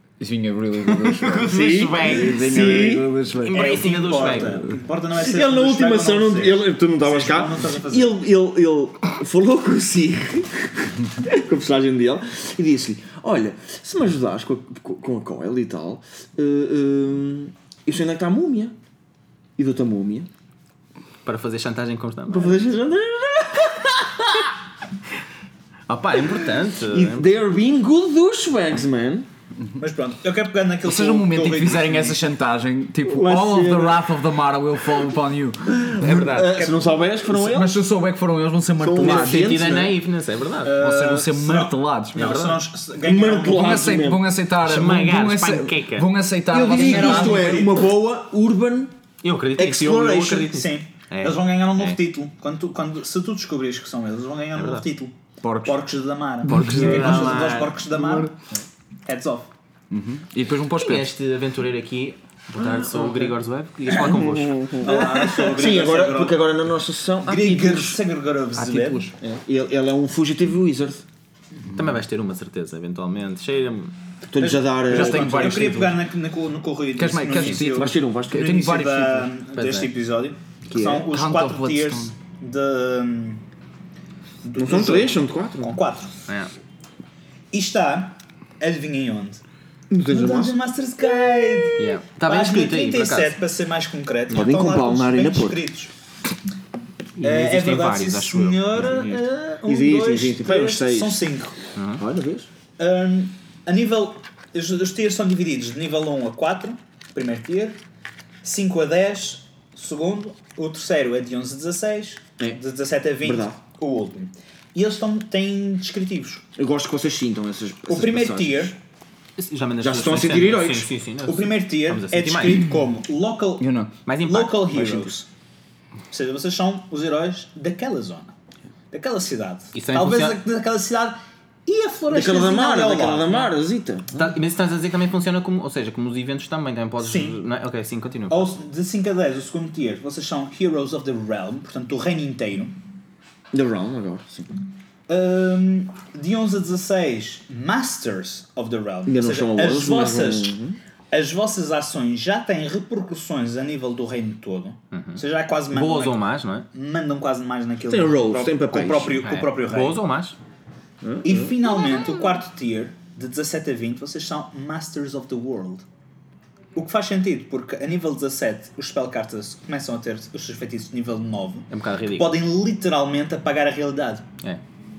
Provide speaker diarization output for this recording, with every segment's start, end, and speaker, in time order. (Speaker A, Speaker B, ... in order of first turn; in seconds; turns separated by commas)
Speaker A: 0.2-3.8, Speaker B: 1.0-2.5, Speaker C: 1.4-3.1, Speaker B: 3.4-4.7, Speaker D: 3.5-8.1, Speaker C: 5.1-18.7, Speaker C: 19.6-20.3, Speaker B: 21.2-22.6, Speaker C: 22.3-24.4, Speaker B: 25.9-27.3, Speaker C: 26.9-29.3, Speaker D: 29.8-32.2, Speaker A: 30.8-36.3, Speaker C: 33.0-34.1, Speaker C: 35.7-37.8, Speaker B: 36.0-36.6, Speaker D: 36.5-37.0, Speaker A: 37.3-39.6, Speaker C: 38.8-40.0, Speaker B: 39.0-40.7, Speaker D: 40.6-43.9, Speaker A: 40.8-42.4, Speaker B: 42.1-42.6, Speaker C: 43.0-44.3, Speaker A: 43.4-47.5, Speaker B: 44.6-46.1, Speaker C: 46.5-48.9, Speaker D: 46.6-47.8, Speaker B: 49.2-52.0, Speaker C: 49.5-50.5, Speaker D: 50.4-55.1, Speaker B: 54.5-54.9, Speaker A: 55.4-55.8, Speaker D: 55.6-58.3, Speaker A: 56.4-57.4, Speaker B: 56.5-57.8, Speaker C: 56.6-57.5, Speaker D: 59.0-59.5, Speaker A: 59.9-61.1, Speaker B: 60.8-65.3, Speaker C: 62.6-63.3, Speaker C: 63.9-68.0, Speaker D: 64.8-66.4, Speaker D: 67.2-69.1, Speaker A: 68.5-69.2, Speaker C: 69.2-71.0, Speaker B: 71.7-73.9, Speaker C: 74.2-75.7, Speaker D: 74.4-83.4, Speaker A: 74.9-76.0, Speaker A: 77.0-79.3, Speaker C: 77.3-78.6, Speaker B: 79.5-79.9, Speaker C: 80.7-81.1, Speaker A: 81.1-82.1, Speaker D: 84.4-86.1, Speaker C: 84.6-85.8, Speaker D: 87.5-89.4, Speaker C: 89.9-90.6, Speaker D: 90.1-95.9, Speaker B: 91.8-93.4, Speaker C: 94.3-95.6, Speaker B: 97.2-99.0, Speaker D: 97.2-101.6, Speaker C: 98.8-101.2, Speaker B: 101.8-102.0, Speaker C: 102.0-102.5, Speaker D: 102.8-107.8, Speaker D: 108.4-116.4, Speaker C: 113.2-113.6, Speaker C: 116.6-118.8, Speaker D: 117.9-118.7, Speaker B: 119.4-122.7, Speaker C: 119.8-120.9, Speaker D: 121.2-123.7, Speaker A: 123.6-123.9, Speaker B: 124.0-125.1, Speaker D: 124.2-125.3, Speaker D: 126.1-128.3, Speaker D: 128.9-133.5, Speaker B: 129.7-130.4, Speaker C: 132.1-134.3, Speaker B: 134.1-138.5, Speaker D: 137.0-137.4, Speaker D: 138.3-142.7, Speaker C: 143.5-144.5, Speaker D: 145.1-150.6, Speaker C: 149.1-150.8, Speaker D: 151.1-156.2, Speaker B: 154.9-156.7, Speaker D: 156.7-160.0, Speaker C: 157.9-159.2, Speaker B: 159.2-160.4, Speaker C: 161.0-161.6, Speaker D: 161.2-165.8, Speaker D: 166.8-174.2, Speaker B: 171.7-172.3